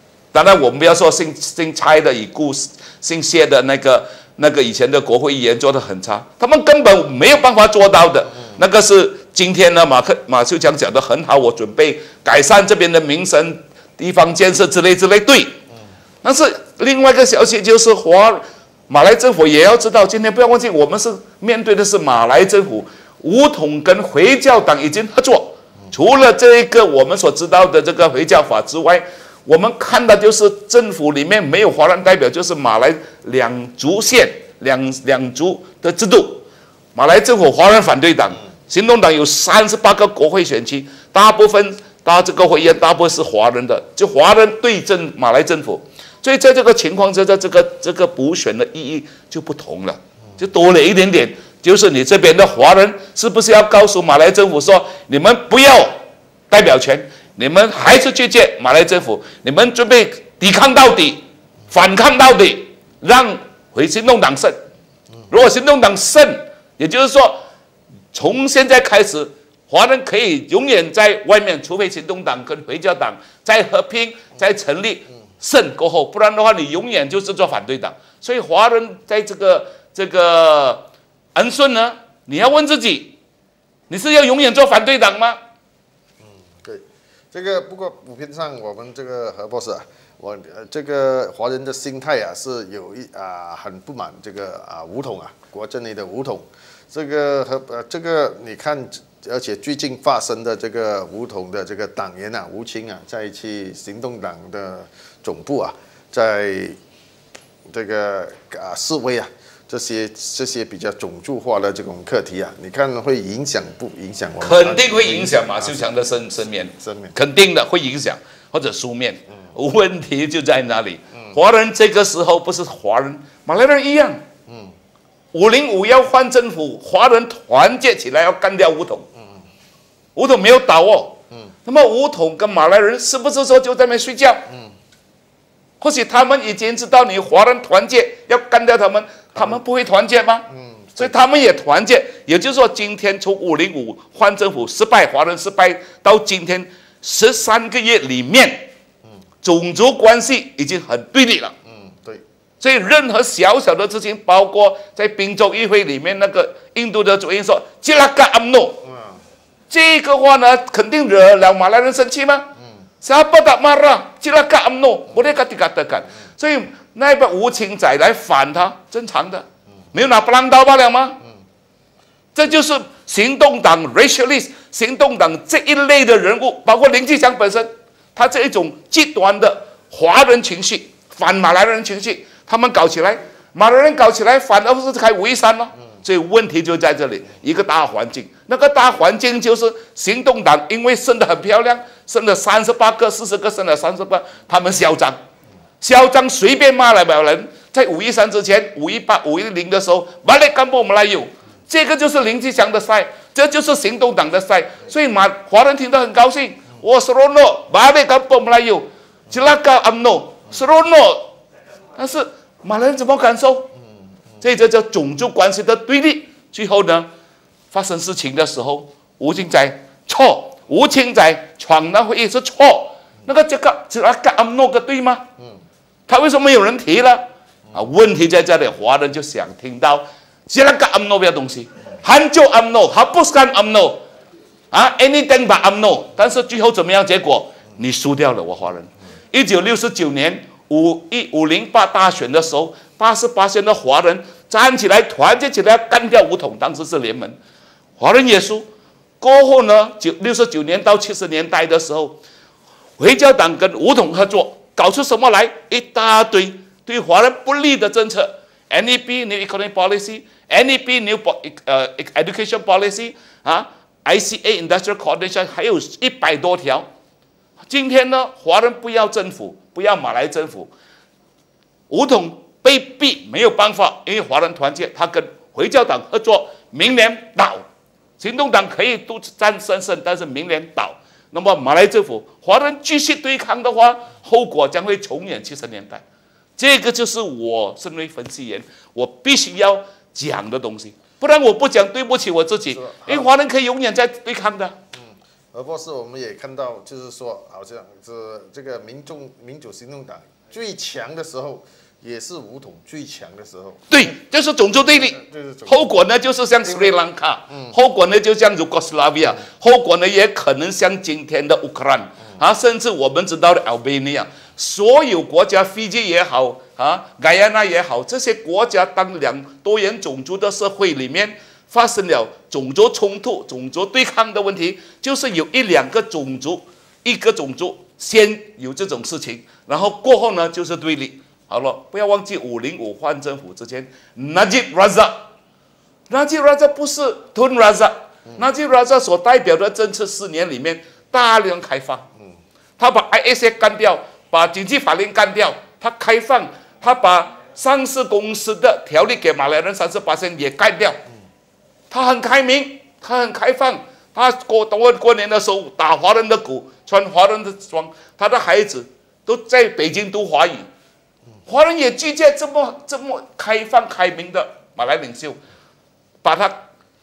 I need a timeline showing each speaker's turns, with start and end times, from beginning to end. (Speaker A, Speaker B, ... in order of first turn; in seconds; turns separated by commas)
Speaker A: 0.3-15.6, Speaker A: 16.2-56.0, Speaker A: 56.5-64.6, Speaker A: 65.3-67.4, Speaker A: 68.1-80.8, Speaker A: 81.3-83.2, Speaker A: 83.9-85.4, Speaker B: 86.2-106.8, Speaker B: 107.7-115.9, Speaker A: 114.4-124.2, Speaker B: 116.8-117.1, Speaker B: 124.5-124.7, Speaker A: 125.3-129.1, Speaker A: 130.2-134.5, Speaker B: 134.5-134.7, Speaker A: 135.8-148.7, Speaker B: 140.5-141.2, Speaker A: 149.4-151.5, Speaker B: 151.6-152.2, Speaker A: 152.6-158.8, Speaker B: 158.8-159.2, Speaker A: 159.7-162.5, Speaker A: 163.0-171.2, Speaker A: 172.3-195.2, Speaker A: 195.8-211.3, Speaker A: 212.0-213.7, Speaker A: 214.4-217.1, Speaker A: 217.7-225.3, Speaker A: 226.1-234.0, Speaker A: 234.7-247.4, Speaker A: 248.0-248.7, Speaker A: 249.2-252.2, Speaker A: 253.0-266.9, Speaker A: 267.7-270.7, Speaker A: 271.9-277.6, Speaker A: 278.2-286.0, Speaker A: 286.6-294.8, Speaker B: 292.7-293.3, Speaker B: 294.9-304.1, Speaker A: 303.9-335.2, Speaker B: 304.8-305.9, Speaker B: 306.6-306.9, Speaker B: 307.5-307.8, Speaker A: 336.1-342.0, Speaker A: 342.8-351.0, Speaker A: 351.9-360.7, Speaker A: 361.5-365.4, Speaker A: 366.2-366.6